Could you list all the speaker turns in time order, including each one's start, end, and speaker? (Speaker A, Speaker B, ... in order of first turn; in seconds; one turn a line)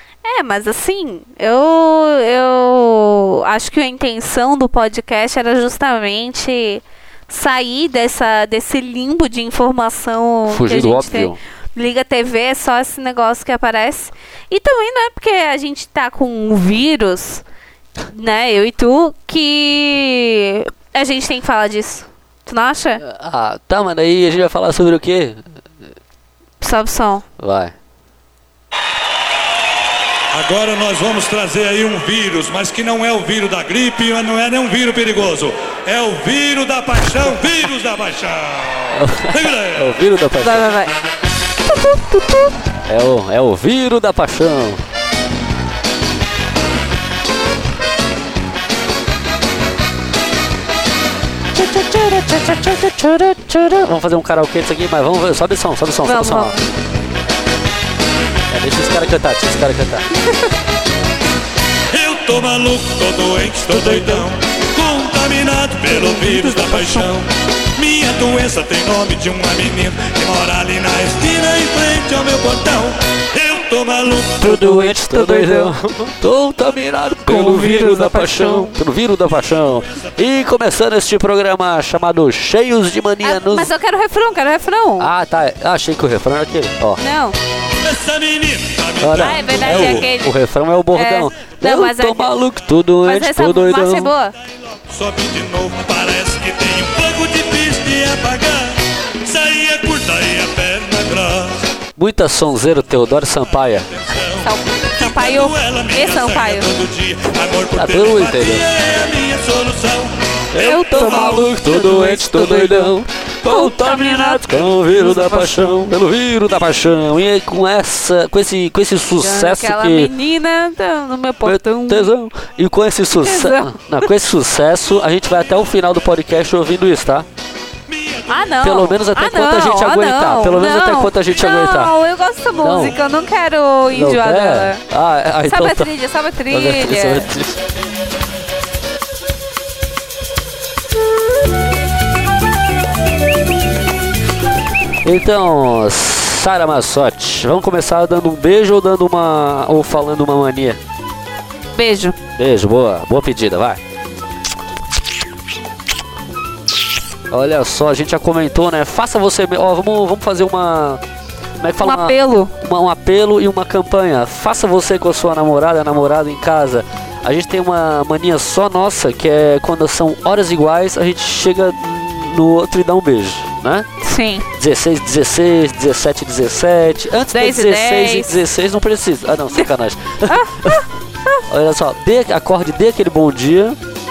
Speaker A: 0.2-17.4
Speaker B: 10.5-11.4
Speaker A: 18.1-23.0
Speaker B: 23.0-25.5
Speaker A: 26.6-27.2
Speaker B: 27.4-27.8
Speaker C: 30.3-39.9
Speaker B: 38.9-40.7
Speaker A: 40.4-40.9
Speaker A: 41.9-42.3
Speaker B: 42.9-44.8
Speaker B: 51.5-56.5
Speaker A: 56.0-56.6
Speaker B: 58.5-60.0
Speaker A: 60.3-60.5
Speaker C: 61.9-74.5
Speaker A: 63.9-64.2
Speaker A: 65.9-67.1
Speaker B: 74.4-83.7
Speaker A: 74.4-75.8
Speaker A: 77.2-78.8
Speaker A: 83.2-85.1
Speaker B: 85.0-87.0
Speaker A: 87.0-87.4
Speaker C: 87.8-90.1
Speaker B: 89.0-94.1
Speaker A: 89.1-90.3
Speaker A: 90.9-92.3
Speaker A: 93.0-94.3
Speaker C: 94.9-101.7
Speaker B: 102.0-104.0
Speaker C: 104.0-111.4
Speaker A: 104.4-106.7
Speaker B: 107.8-108.6
Speaker B: 110.5-120.1
Speaker A: 110.5-115.9
Speaker A: 119.2-122.1
Speaker B: 121.4-127.3
Speaker A: 123.1-123.7
Speaker C: 127.9-128.5
Speaker A: 128.3-134.8
Speaker B: 128.6-131.9
Speaker B: 132.5-133.0
Speaker B: 133.9-135.9
Speaker A: 135.4-137.3
Speaker B: 136.5-137.6
Speaker B: 145.0-150.8
Speaker A: 151.7-152.2
Speaker B: 152.3-153.8
Speaker B: 157.3-161.0
Speaker B: 161.6-173.9
Speaker A: 161.8-162.5
Speaker A: 174.0-174.5
Speaker B: 174.5-180.8
Speaker A: 177.3-178.4
Speaker A: 180.3-181.4
Speaker B: 181.4-183.8